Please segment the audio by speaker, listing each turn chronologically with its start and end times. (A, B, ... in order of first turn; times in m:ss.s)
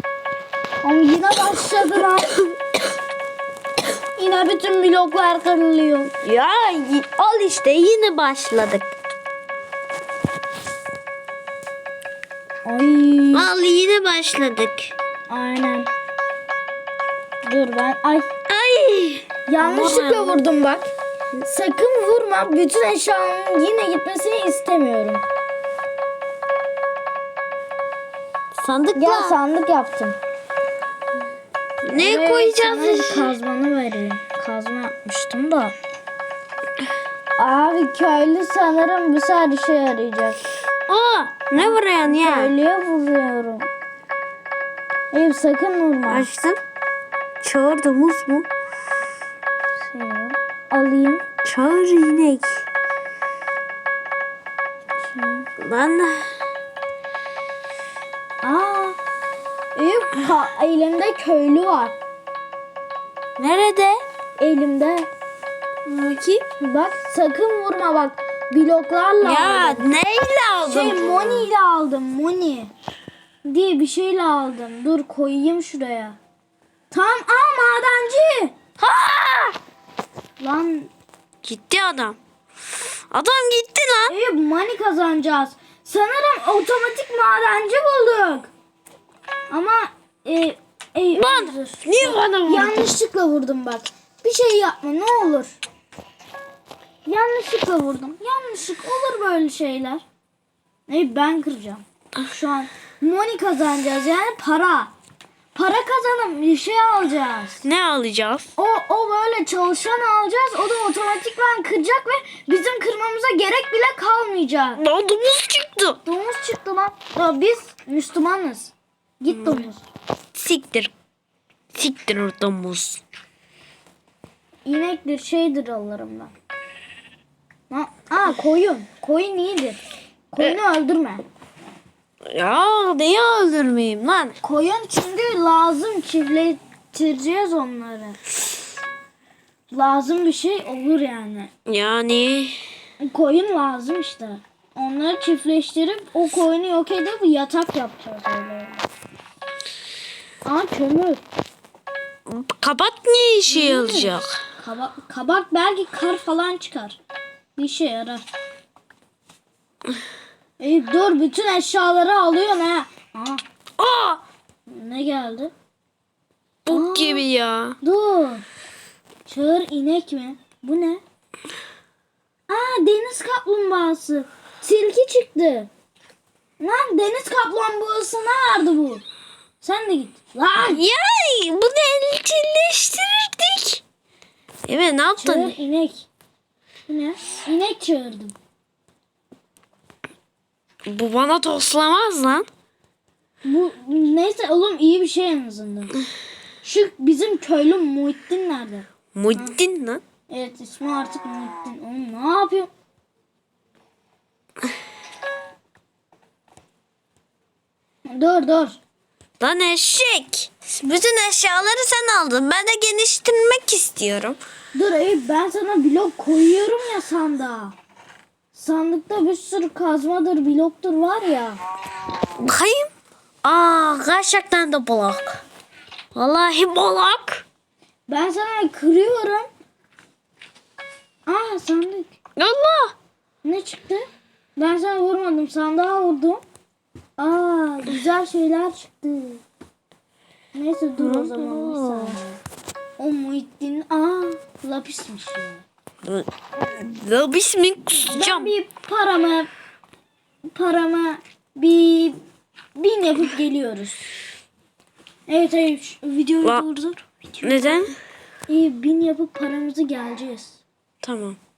0:00.8-0:02.4 A
0:04.2-0:06.1 A
0:06.2-0:08.9 B
0:12.6-0:13.5 A
0:13.3-0:14.9 B
0:15.3-0:15.9 A
0:17.4-0:18.3 A
0:18.5-0:20.4 B
0:19.5-0:25.2 A
0:28.6-0:29.4 B
0:29.0-0:30.2 A
0:31.8-0:33.4 B
0:32.0-0:35.7 A
0:37.4-0:40.4 A
0:40.9-0:42.5 B
0:41.6-0:43.7 A
0:45.1-0:46.3 A
0:46.1-0:46.6 B
0:47.4-0:48.5 B
0:49.8-0:51.2 A
0:51.4-0:52.6 B
0:55.0-0:55.5 A
0:55.6-0:56.3 B
0:58.4-0:59.0 A
0:59.8-1:02.0 A
1:03.4-1:04.0 B
1:04.4-1:05.1 A
1:05.9-1:06.4 B
1:06.6-1:09.9 A
1:09.2-1:11.5 B
1:10.7-1:12.7 A
1:13.4-1:16.2 A
1:16.9-1:18.6 A
1:18.8-1:19.6 B
1:20.4-1:20.9 A
1:21.4-1:22.2 B
1:23.1-1:24.2 B
1:24.1-1:28.5 A
1:29.5-1:35.6 A
1:31.1-1:33.0 B
1:37.0-1:40.0 A
1:40.9-1:44.9 A
1:45.5-1:47.6 A
1:47.6-1:48.5 B
1:48.6-1:54.8 A
1:54.8-1:56.0 B
1:56.0-1:59.9 A
1:59.3-1:59.7 B
2:00.3-2:00.9 B
2:01.7-2:03.0 B
2:04.6-2:06.3 A
2:07.7-2:11.2 A
2:12.3-2:14.4 B
2:14.4-2:18.2 A
2:19.7-2:21.5 A
2:21.7-2:22.6 B
2:23.0-2:28.8 A
2:30.4-2:31.2 A
2:32.3-2:34.4 B
2:33.5-2:37.0 A
2:37.6-2:38.2 A
2:40.6-2:43.4 A
2:43.8-2:44.2 B
2:44.7-2:45.5 A
2:46.7-2:47.8 B
2:46.7-2:47.2 A
2:47.8-2:48.4 A
2:49.3-2:51.0 A
2:52.5-2:55.7 A
2:56.6-2:59.0 A
2:59.6-3:00.8 A
3:00.6-3:03.8 B
3:04.6-3:05.6 B
3:05.2-3:06.1 A
3:06.9-3:08.4 A
3:10.9-3:12.5 B
3:13.4-3:16.0 A
3:16.6-3:19.5 A
3:19.1-3:20.0 B
3:20.3-3:22.7 A
3:28.1-3:28.8 A
3:29.4-3:34.4 B
3:34.7-3:37.8 A
3:38.5-3:41.6 A
3:42.4-3:42.9 B
3:43.4-3:45.4 B
3:46.2-3:47.4 B
3:48.1-3:49.5 A
3:51.3-3:52.2 A
3:52.4-3:52.9 B
3:53.4-3:56.4 A
3:57.2-3:59.4 A
4:00.5-4:02.4 A
4:01.0-4:02.2 B
4:03.0-4:05.6 A
4:06.0-4:08.5 B
4:08.1-4:09.5 A
4:10.5-4:12.2 A
4:12.8-4:14.0 A
4:15.3-4:17.9 A
4:17.4-4:17.9 B
4:18.5-4:20.6 A
4:21.0-4:21.4 B